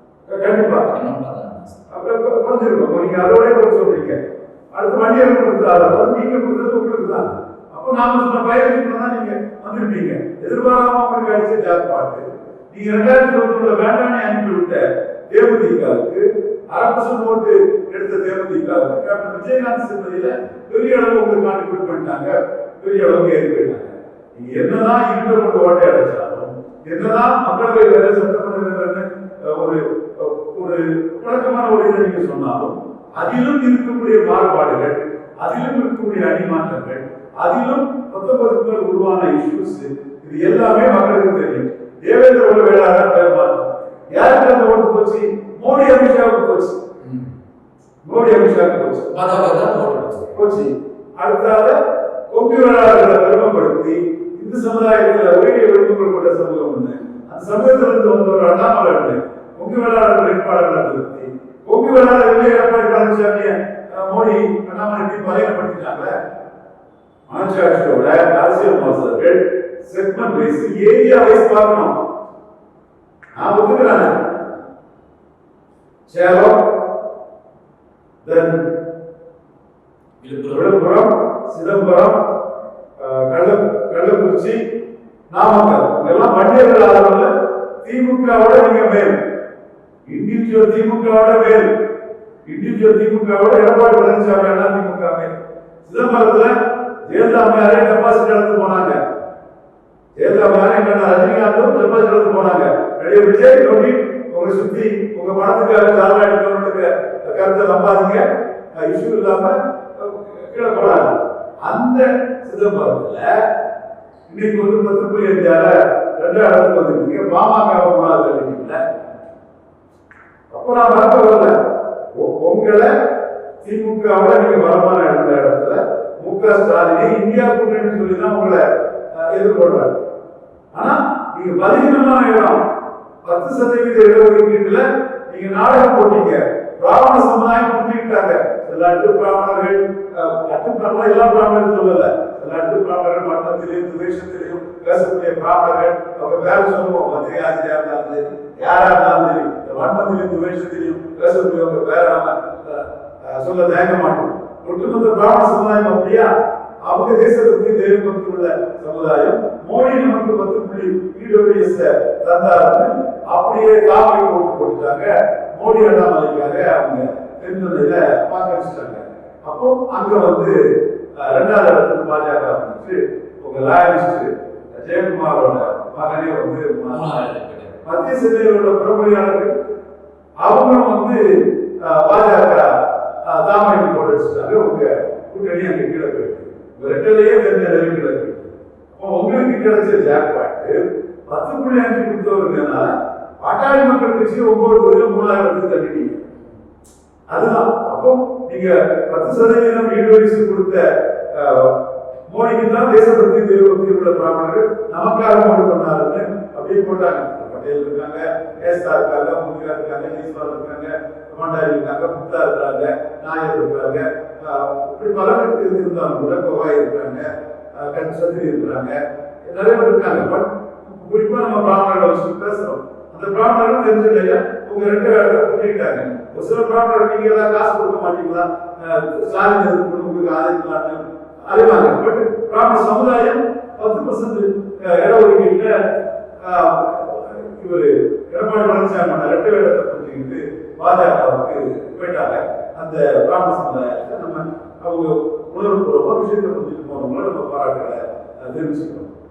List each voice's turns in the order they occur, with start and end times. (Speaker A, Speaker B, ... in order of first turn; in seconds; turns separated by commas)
Speaker A: 0.3-0.9, Speaker B: 0.8-1.9, Speaker A: 1.9-46.8, Speaker B: 47.0-47.3, Speaker A: 48.1-49.2, Speaker B: 49.1-50.5, Speaker A: 50.3-51.8, Speaker A: 52.3-66.1, Speaker A: 67.3-72.0, Speaker A: 73.3-74.3, Speaker A: 76.1-76.7, Speaker A: 78.2-78.6, Speaker B: 80.2-80.7, Speaker A: 80.5-82.2, Speaker A: 83.0-84.6, Speaker A: 85.3-87.3, Speaker A: 87.8-89.2, Speaker A: 90.1-91.7, Speaker A: 92.5-95.3, Speaker A: 95.8-96.5, Speaker A: 97.1-99.0, Speaker A: 100.2-108.3, Speaker A: 108.8-113.3, Speaker A: 114.3-118.8, Speaker A: 120.5-121.5, Speaker A: 122.1-122.9, Speaker A: 123.6-128.6, Speaker A: 129.1-130.0, Speaker A: 130.7-132.6, Speaker A: 133.2-156.3, Speaker A: 156.8-170.6, Speaker A: 171.2-177.0, Speaker B: 176.9-177.8, Speaker A: 177.8-179.5, Speaker A: 180.4-181.2, Speaker A: 181.8-190.8, Speaker A: 191.3-196.2, Speaker A: 197.3-201.8, Speaker A: 202.3-235.8, Speaker A: 236.4-249.1